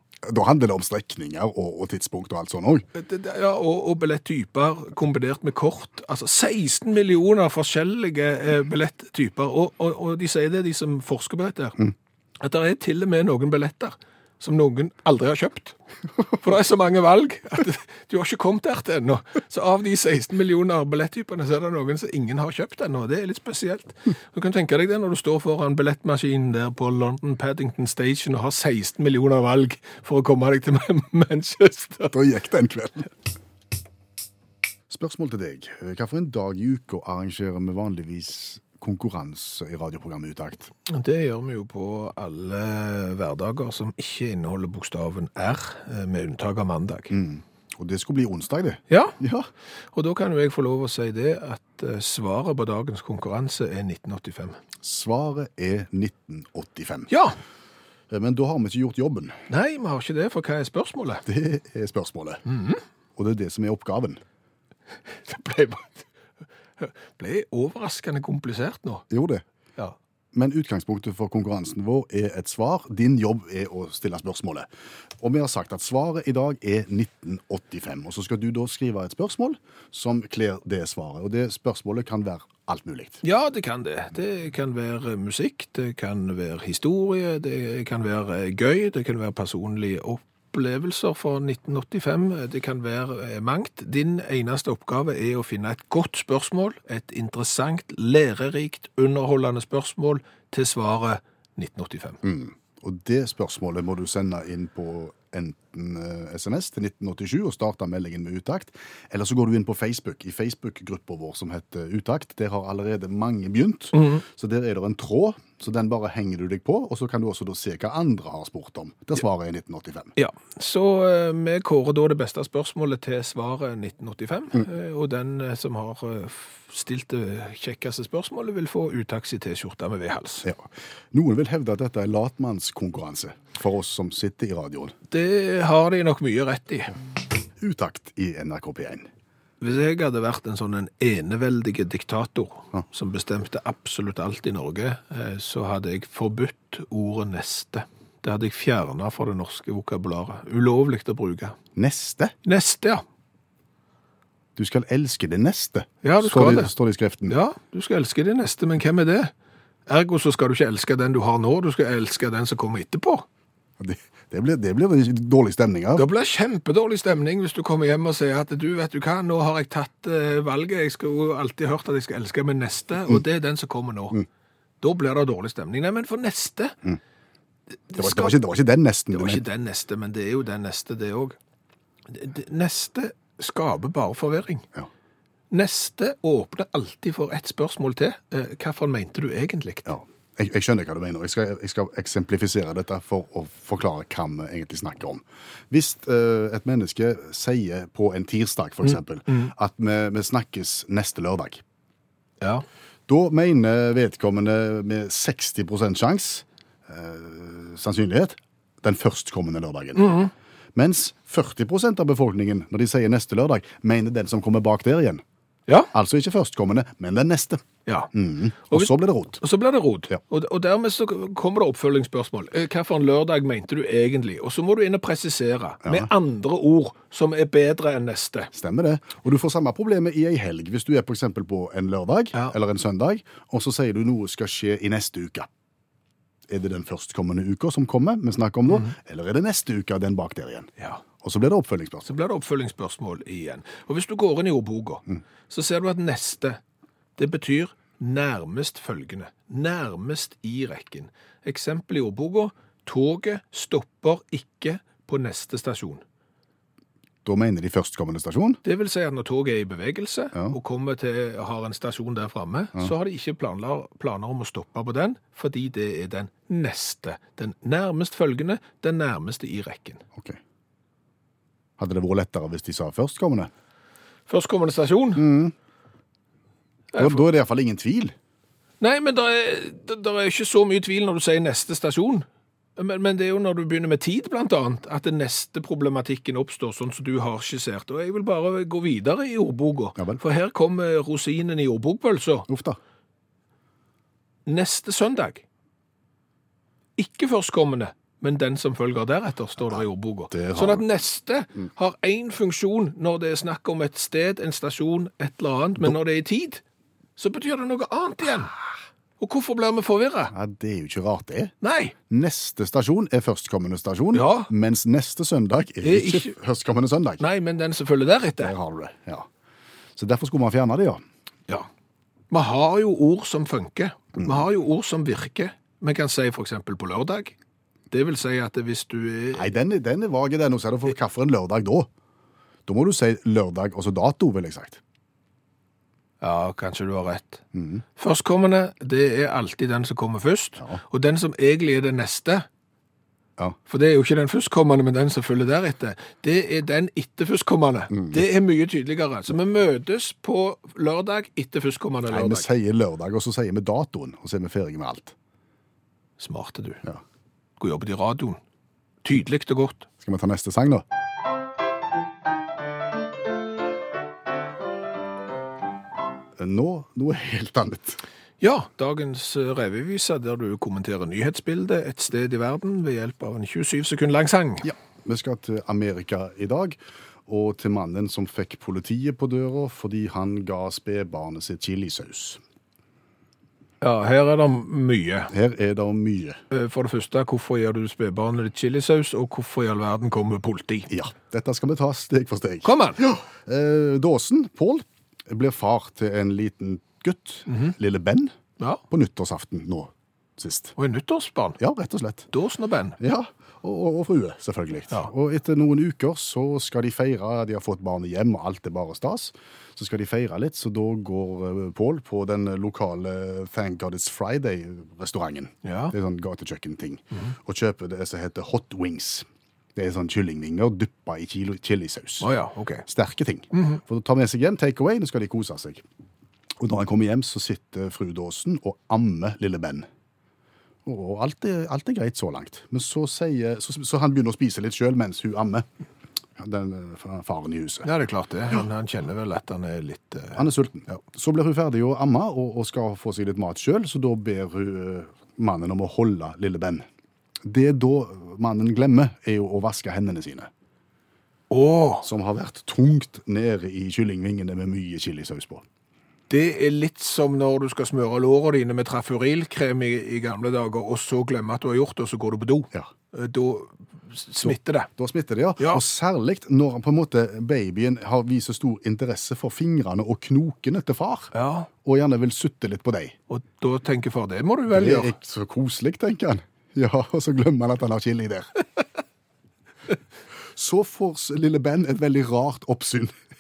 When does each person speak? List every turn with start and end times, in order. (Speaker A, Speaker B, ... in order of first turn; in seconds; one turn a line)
Speaker A: 0.2-2.9
Speaker B: 2.9-11.8
Speaker B: 12.4-15.8
Speaker B: 16.3-32.1
Speaker A: 32.1-33.1
Speaker A: 34.9-40.7
Speaker B: 40.9-47.1
Speaker A: 47.1-49.5
Speaker B: 48.9-49.2
Speaker B: 49.9-54.6
Speaker A: 54.8-57.1
Speaker B: 57.1-57.4
Speaker A: 58.1-59.4
Speaker B: 59.5-61.2
Speaker A: 61.3-62.4
Speaker B: 62.5-62.8
Speaker A: 63.2-64.2
Speaker B: 65.2-66.1
Speaker B: 66.8-69.1
Speaker A: 69.1-69.4
Speaker A: 70.3-74.7
Speaker A: 75.2-83.2
Speaker B: 83.2-102.2
Speaker A: 102.2-120.1
Speaker B: 113.9-114.2
Speaker B: 120.2-130.5
Speaker A: 130.4-134.9
Speaker B: 135.1-136.9
Speaker A: 137.6-139.1
Speaker B: 139.6-151.6
Speaker A: 151.8-152.3
Speaker B: 152.4-153.0
Speaker A: 154.6-157.4
Speaker B: 156.0-156.7
Speaker B: 157.3-159.3
Speaker B: 159.9-163.2
Speaker A: 163.8-166.1
Speaker B: 166.0-174.2
Speaker B: 174.8-176.8
Speaker B: 177.9-178.4
Speaker A: 177.9-179.4
Speaker B: 179.1-181.4
Speaker B: 182.1-184.7
Speaker B: 185.5-189.9
Speaker A: 189.9-201.6
Speaker B: 198.9-199.5
Speaker B: 202.4-202.7
Speaker A: 203.1-210.1
Speaker B: 210.0-210.3
Speaker A: 210.8-215.2
Speaker A: 215.9-219.4
Speaker B: 217.9-218.1
Speaker B: 218.7-228.5
Speaker A: 225.8-226.1
Speaker A: 228.5-235.5
Speaker A: 236.5-242.1
Speaker B: 242.1-246.6
Speaker B: 247.2-256.0
Speaker A: 257.2-258.6
Speaker B: 258.6-270.0
Speaker A: 270.1-270.4
Speaker A: 271.8-273.5
Speaker B: 274.3-275.3
Speaker A: 275.2-275.5
Speaker B: 276.9-277.2
Speaker A: 277.0-278.1
Speaker B: 278.8-282.3
Speaker B: 282.8-292.5
Speaker A: 292.5-292.8
Speaker B: 294.5-295.4
Speaker B: 297.0-306.6
Speaker A: 299.7-300.8
Speaker B: 307.2-308.5
Speaker B: 309.2-310.3
Speaker A: 310.3-311.5
Speaker B: 311.6-311.9
Speaker A: 312.1-317.2
Speaker B: 314.1-314.5
Speaker B: 315.8-316.3
Speaker B: 317.2-318.5
Speaker A: 318.4-319.3
Speaker A: 320.0-321.0
Speaker B: 322.3-327.4
Speaker B: 327.9-329.5
Speaker A: 329.3-331.9
Speaker A: 332.7-334.8
Speaker B: 336.2-337.4
Speaker A: 337.5-337.8
Speaker B: 338.0-342.5
Speaker B: 343.7-352.5
Speaker A: 347.9-348.2
Speaker A: 352.1-355.1
Speaker B: 356.2-356.8
Speaker B: 357.6-358.4
Speaker B: 359.0-359.9
Speaker A: 360.0-360.8
Speaker A: 366.4-368.0
Speaker B: 368.4-374.7
Speaker A: 374.6-382.4
Speaker B: 383.8-385.3
Speaker A: 385.3-386.4
Speaker B: 386.5-390.9
Speaker A: 390.9-398.4
Speaker B: 392.6-393.0
Speaker B: 397.5-397.7
Speaker A: 398.9-400.8
Speaker B: 400.8-401.6
Speaker A: 401.6-402.3
Speaker B: 402.3-403.0
Speaker A: 403.0-422.3
Speaker B: 415.6-415.9
Speaker B: 422.2-422.9
Speaker A: 422.9-425.8
Speaker B: 423.5-423.8
Speaker A: 426.6-429.9
Speaker A: 430.9-435.7
Speaker A: 436.4-437.9
Speaker B: 437.8-440.5
Speaker A: 440.4-446.9
Speaker A: 447.4-450.5
Speaker B: 451.5-452.1
Speaker A: 452.0-455.6
Speaker B: 456.3-464.9
Speaker A: 464.4-473.1
Speaker B: 471.3-471.7
Speaker B: 473.3-475.1
Speaker A: 474.7-478.6
Speaker A: 480.6-483.1